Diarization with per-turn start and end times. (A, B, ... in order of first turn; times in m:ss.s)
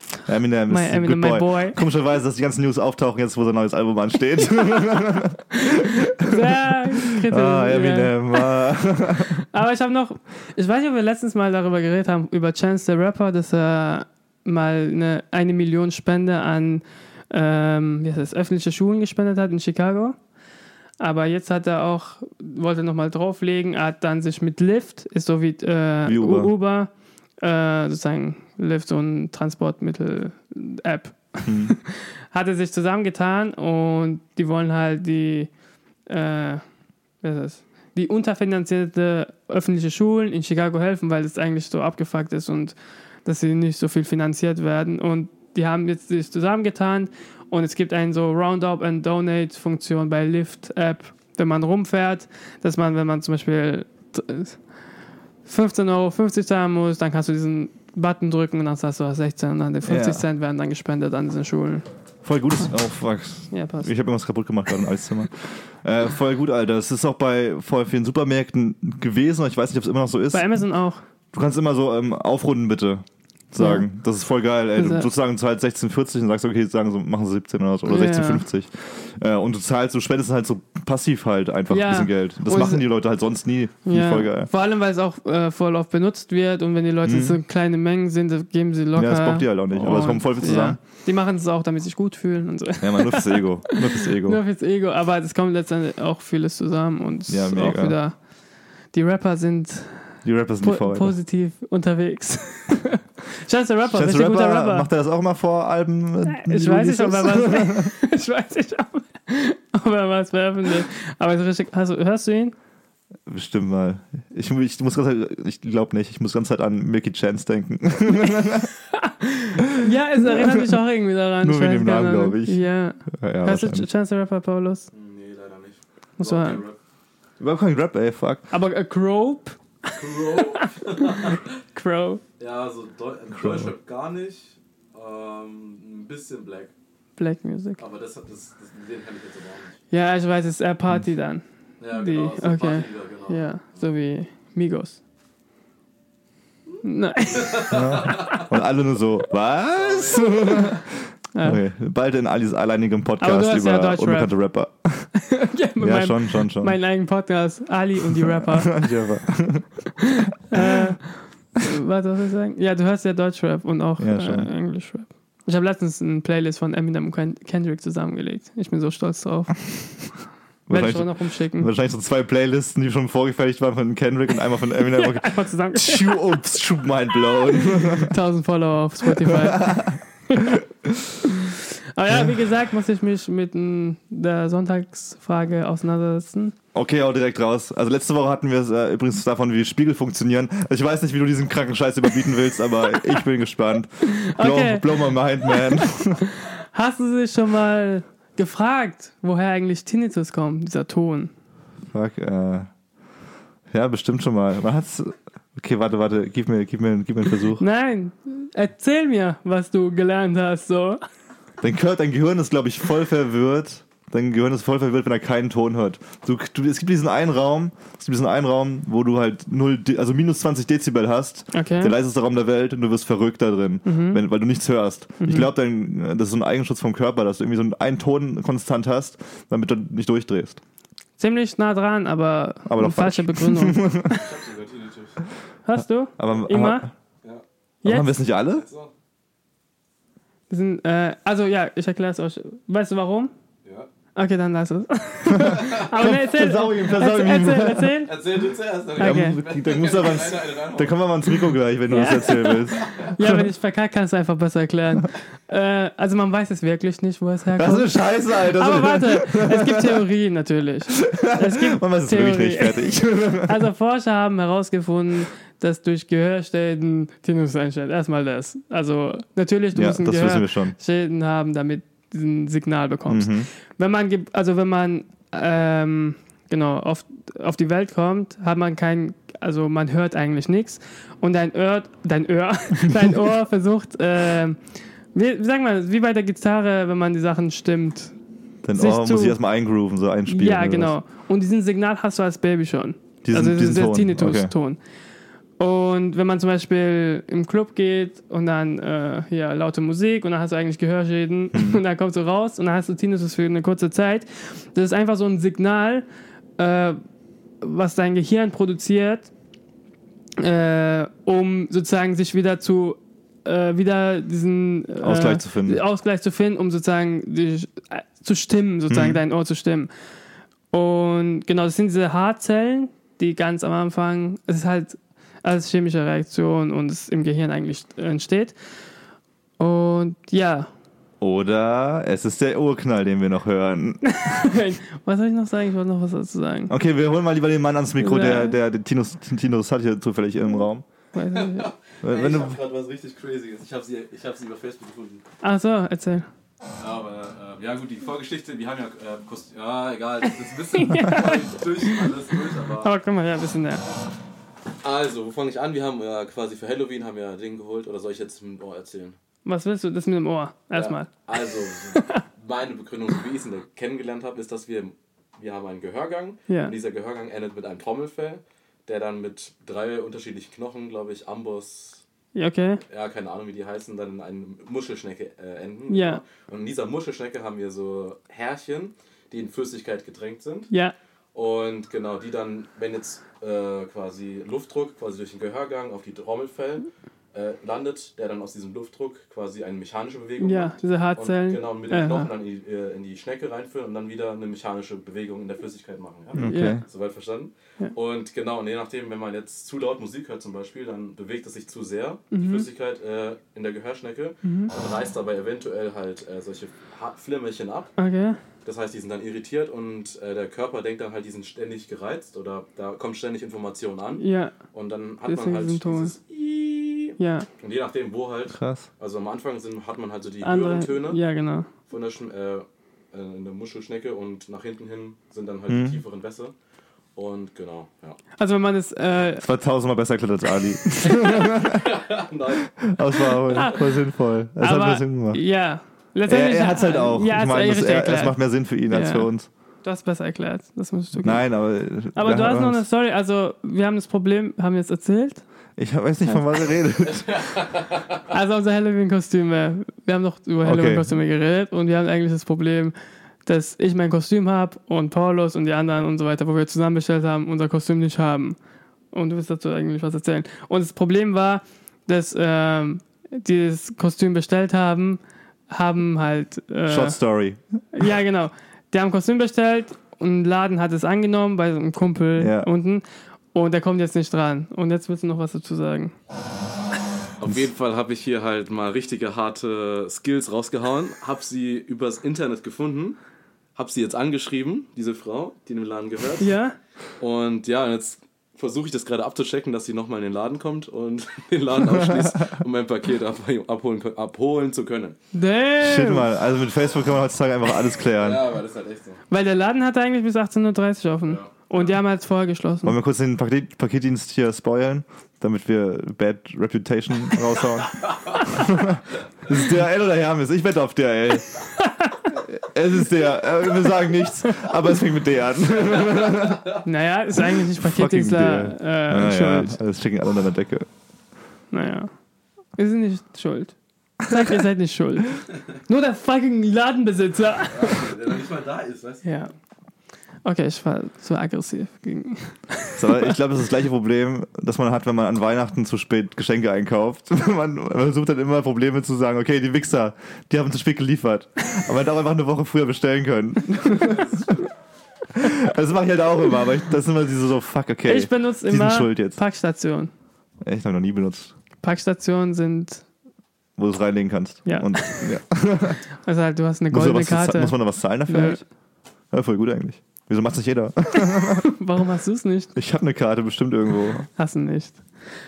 0:00.2-0:09.4 A
0:00.7-0:01.8 B
0:05.7-0:08.6 B
0:09.5-0:20.2 B
0:21.0-0:26.9 B
0:26.0-0:26.5 A
0:27.4-0:35.5 B
0:31.4-0:31.7 A
0:36.1-0:36.6 B
0:37.2-0:54.6 B
0:55.4-1:01.8 B
0:59.8-1:00.2 A
1:02.2-1:10.5 A
1:03.5-1:03.9 B
1:10.3-1:11.0 B
1:11.3-1:24.5 A
1:13.6-1:13.8 B
1:14.8-1:15.1 B
1:17.8-1:18.4 B
1:21.7-1:22.9 B
1:23.8-1:38.2 B
1:27.0-1:27.4 A
1:29.0-1:30.8 A
1:32.8-1:34.4 A
1:37.3-1:38.0 A
1:38.9-1:44.9 B
1:40.2-1:41.1 A
1:43.9-1:47.9 A
1:46.2-1:52.6 B
1:53.3-1:58.7 A
1:58.9-2:04.9 B
1:59.6-2:00.8 A
2:01.4-2:02.6 A
2:03.1-2:03.9 A
2:04.9-2:06.8 C
2:06.2-2:06.6 B
2:07.4-2:08.5 A
2:08.5-2:12.2 B
2:09.9-2:11.6 C
2:12.4-2:16.7 C
2:13.3-2:13.7 A
2:17.2-2:17.8 B
2:17.8-2:19.8 C
2:19.9-2:25.0 B
2:21.8-2:23.8 C
2:26.8-2:28.2 B
2:27.3-2:28.5 C
2:27.7-2:35.1 A
2:29.7-2:30.8 C
2:31.3-2:31.6 B
2:33.2-2:34.3 B
2:35.2-2:38.9 B
2:35.8-2:36.7 A
2:38.2-2:39.7 A
2:40.0-2:50.1 B
2:44.0-2:44.5 A
2:50.7-2:58.1 A
2:50.7-2:51.7 B
2:54.9-2:56.2 B
2:57.8-3:00.6 B
2:59.1-3:01.1 A
3:01.2-3:06.5 B
3:02.1-3:02.4 A
3:06.7-3:16.2 A
3:14.0-3:21.3 B
3:21.9-3:22.7 A
3:23.7-3:27.6 A
3:27.6-3:31.0 B
3:31.6-3:50.6 A
3:41.5-3:41.9 B
3:43.8-3:44.2 B
3:45.2-3:45.5 B
3:51.2-3:54.2 B
3:52.6-3:54.2 A
3:54.1-3:55.2 C
3:55.6-3:56.8 B
3:56.2-3:56.9 A
3:57.8-3:58.2 B
3:57.8-3:58.6 A
3:58.5-3:58.9 C
4:00.5-4:03.3 B
4:04.1-4:08.1 B
4:05.3-4:07.9 A
4:08.0-4:11.3 C
4:09.0-4:09.4 B
4:09.0-4:13.4 A
4:11.9-4:44.6 B
4:12.7-4:13.1 C
4:17.6-4:20.0 A
4:20.9-4:23.6 A
4:29.7-4:30.7 A
4:33.1-4:33.5 A
4:45.1-4:48.1 B
4:48.6-4:50.9 A
4:48.7-4:49.4 B
4:50.3-4:54.8 B
4:53.2-4:54.5 A
4:55.6-5:06.0 B
5:01.5-5:01.8 A
5:06.6-5:07.0 B
5:07.6-5:09.3 B
5:10.4-5:19.9 B
5:15.0-5:15.8 A
5:18.9-5:19.2 A
5:20.7-5:28.6 B
5:29.6-5:30.7 B
5:31.2-5:34.6 A
5:34.0-5:36.7 B
5:36.7-5:40.8 A
5:38.0-5:38.6 B
5:41.1-5:41.7 B
5:41.3-5:45.2 C
5:42.0-5:42.6 A
5:45.4-5:46.3 B
5:46.8-5:52.9 C
5:50.7-5:52.1 B
5:52.8-5:53.8 B
5:54.8-5:59.2 C
5:59.4-6:02.2 B
6:00.7-6:12.0 C
6:06.5-6:06.7 B
6:12.3-6:12.8 B
6:12.9-6:20.7 C
6:15.9-6:16.2 B
6:21.3-6:47.9 C
6:30.4-6:32.3 B
6:36.3-6:36.8 A
6:36.4-6:36.8 B
6:42.3-6:42.6 B
6:44.4-6:44.7 B
6:48.0-6:48.4 B
6:48.6-7:01.2 C
6:54.2-6:54.6 B
6:55.2-6:56.1 B
6:57.2-6:57.5 B
6:58.5-6:58.9 A
7:00.4-7:01.7 B
7:01.9-7:06.5 C
7:05.7-7:06.0 A
7:07.1-7:08.2 C
7:08.4-7:09.4 B
7:09.4-7:12.0 A
7:11.0-7:13.4 C
7:12.8-7:15.4 A
7:13.5-7:13.8 B
7:14.6-7:18.4 B
7:16.3-7:19.5 A
7:18.9-7:19.3 B
7:19.8-7:21.5 B
7:21.2-7:22.8 A
7:22.1-7:25.4 B
7:25.8-7:27.6 A
7:27.3-7:28.0 C
7:28.3-7:32.9 B
7:30.6-7:31.1 A
7:33.4-7:38.6 B
7:39.1-7:47.2 B
7:46.9-7:47.6 A
7:47.9-7:56.1 B
7:52.4-7:52.7 A
7:57.4-8:03.2 C
8:03.8-8:06.5 C
8:06.4-8:06.8 B
8:07.2-8:15.2 C
8:11.9-8:12.4 A
8:15.3-8:16.3 B
8:15.8-8:18.4 A
8:18.1-8:19.2 C
8:19.3-8:22.9 B
8:21.2-8:21.8 C
8:22.8-8:31.5 A
8:31.8-8:32.2 B
8:32.3-8:36.8 A
8:36.8-8:39.8 B
8:37.4-8:40.9 A
8:41.7-8:42.1 B
8:42.8-8:48.1 B
8:47.7-8:49.3 C
8:49.2-8:49.5 B
8:50.4-8:53.3 B
8:53.0-9:04.6 A
9:04.0-9:04.4 C
9:05.3-9:09.4 A
9:08.1-9:10.1 B
9:10.6-9:11.5 A
9:11.8-9:13.0 B
9:13.8-9:16.0 A
9:14.6-9:15.3 B
9:16.2-9:17.8 B
9:16.9-9:18.6 A
9:18.3-9:18.6 B
9:19.3-9:21.7 A
9:21.6-9:22.7 B
9:22.8-9:24.3 A
9:24.4-9:25.0 B